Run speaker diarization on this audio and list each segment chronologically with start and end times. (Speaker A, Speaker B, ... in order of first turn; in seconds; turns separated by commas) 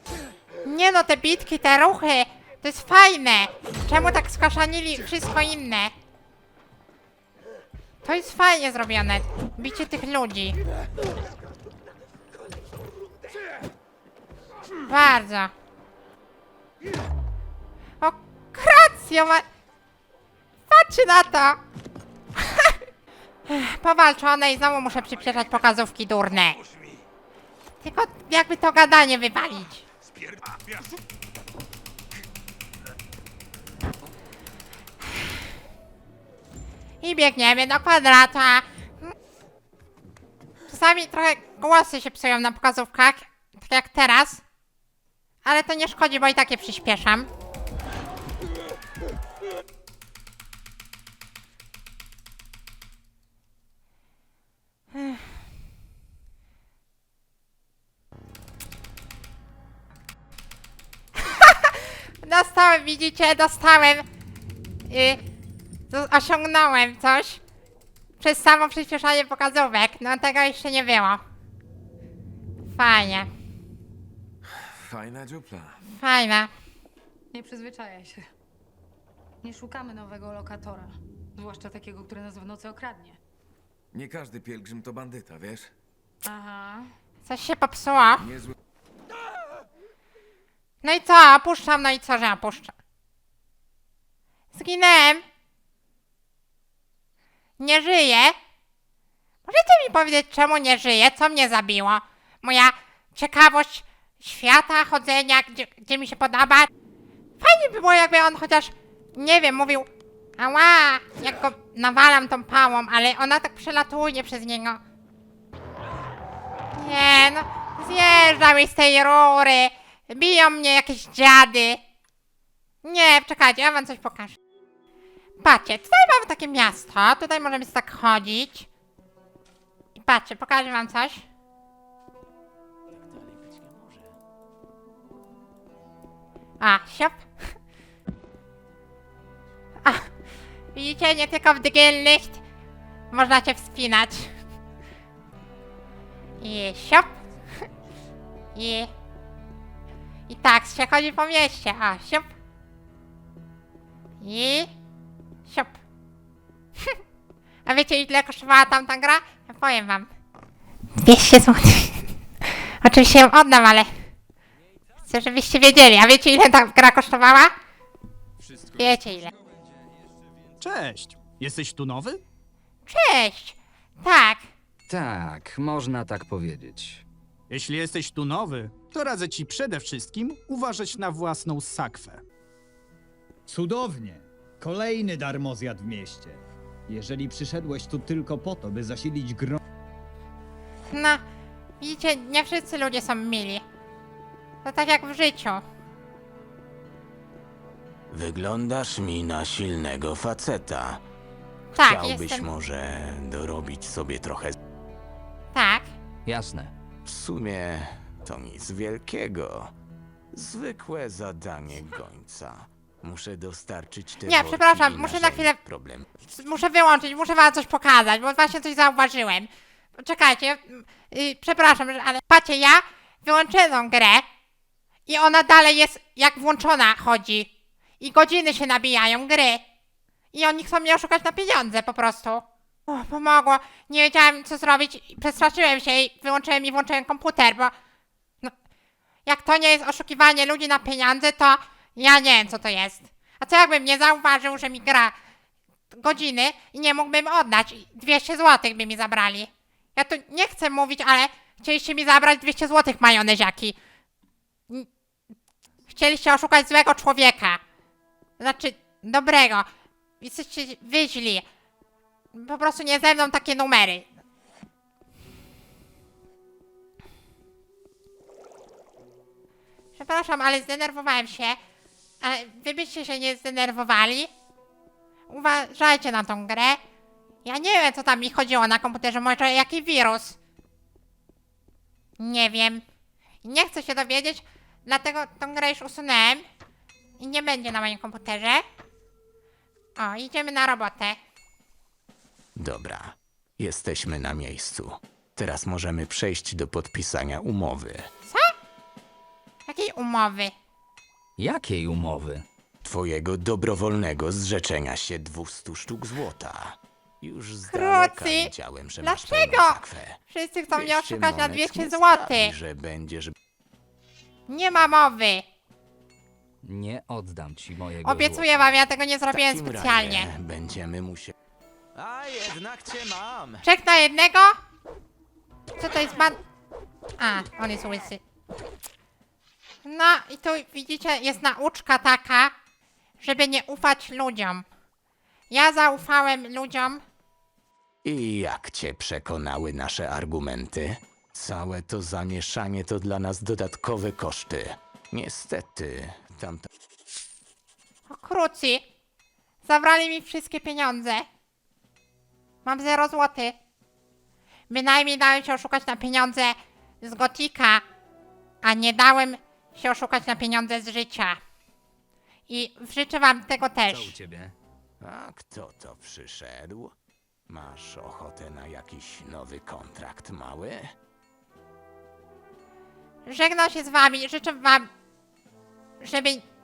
Speaker A: 0.6-5.9, Speaker A: 8.0-10.6, Speaker A: 14.8-15.5, Speaker A: 18.0-19.4, Speaker A: 20.7-21.6, Speaker A: 22.4-22.8, Speaker A: 23.5-26.6, Speaker A: 27.8-29.9, Speaker A: 37.0-39.1, Speaker A: 40.7-44.4, Speaker A: 45.4-47.3, Speaker A: 54.9-55.3, Speaker A: 61.1-64.0, Speaker A: 64.9-65.2, Speaker A: 65.9-67.4, Speaker A: 68.2-71.2, Speaker A: 72.7-73.3, Speaker B: 74.5-75.8, Speaker A: 75.9-76.5, Speaker C: 77.3-78.3, Speaker C: 79.4-83.2, Speaker B: 83.9-85.7, Speaker C: 86.2-86.9, Speaker A: 87.2-88.3, Speaker B: 88.2-88.5, Speaker A: 90.8-92.7, Speaker A: 94.5-95.2, Speaker A: 97.6-98.3, Speaker A: 99.5-106.7, Speaker A: 107.4-109.9, Speaker A: 110.4-114.8, Speaker A: 116.7-121.8, Speaker A: 122.8-124.4, Speaker A: 125.4-128.7, Speaker A: 129.9-131.2, Speaker D: 133.1-134.1, Speaker A: 136.6-137.5, Speaker A: 139.8-140.1, Speaker A: 140.7-142.4, Speaker A: 143.1-144.3, Speaker A: 146.4-147.1, Speaker A: 148.5-148.9, Speaker A: 150.3-152.3, Speaker A: 154.2-154.7, Speaker A: 155.5-155.8, Speaker A: 157.7-160.1, Speaker A: 161.0-163.9, Speaker A: 165.0-167.5, Speaker A: 168.8-169.3, Speaker E: 170.6-172.2, Speaker A: 172.8-174.4, Speaker F: 174.9-177.0, Speaker E: 177.5-182.2, Speaker G: 183.5-189.6, Speaker A: 190.9-191.2, Speaker A: 191.8-193.6, Speaker A: 194.6-195.6, Speaker D: 198.1-201.0, Speaker D: 201.7-204.5, Speaker A: 201.8-202.5, Speaker A: 205.5-205.8, Speaker F: 206.2-206.7, Speaker D: 207.0-209.7, Speaker D: 210.3-216.1, Speaker A: 214.2-215.6, Speaker A: 216.2-224.2, Speaker A: 225.1-229.6, Speaker A: 230.3-237.7, Speaker A: 239.2-245.1, Speaker A: 245.9-253.8, Speaker A: 255.9-257.6, Speaker A: 258.4-259.7, Speaker A: 260.2-261.4, Speaker A: 262.3-264.1, Speaker A: 269.9-271.6, Speaker A: 272.2-274.3, Speaker A: 275.3-276.8, Speaker A: 277.4-280.4, Speaker A: 282.2-282.8, Speaker A: 283.4-286.4, Speaker A: 287.2-288.6, Speaker A: 290.0-291.2, Speaker D: 292.6-298.1, Speaker A: 298.2-298.5, Speaker A: 299.7-300.5, Speaker F: 301.4-302.4, Speaker D: 302.8-310.2, Speaker A: 307.7-312.5, Speaker D: 310.7-313.3, Speaker A: 314.5-315.4, Speaker F: 316.6-318.6, Speaker A: 318.0-320.3, Speaker D: 319.3-321.3, Speaker D: 321.9-323.6, Speaker A: 323.6-324.6, Speaker A: 325.8-326.4, Speaker A: 327.2-328.2, Speaker A: 329.8-332.5, Speaker A: 333.2-334.6, Speaker A: 335.5-337.0, Speaker D: 338.0-346.7, Speaker A: 348.1-348.8, Speaker A: 349.6-351.2, Speaker A: 352.6-353.5, Speaker A: 354.7-357.8, Speaker A: 358.6-361.4, Speaker A: 362.5-364.1, Speaker F: 363.9-364.5, Speaker D: 365.0-366.9, Speaker D: 367.5-370.9, Speaker A: 373.2-374.9, Speaker A: 376.0-376.4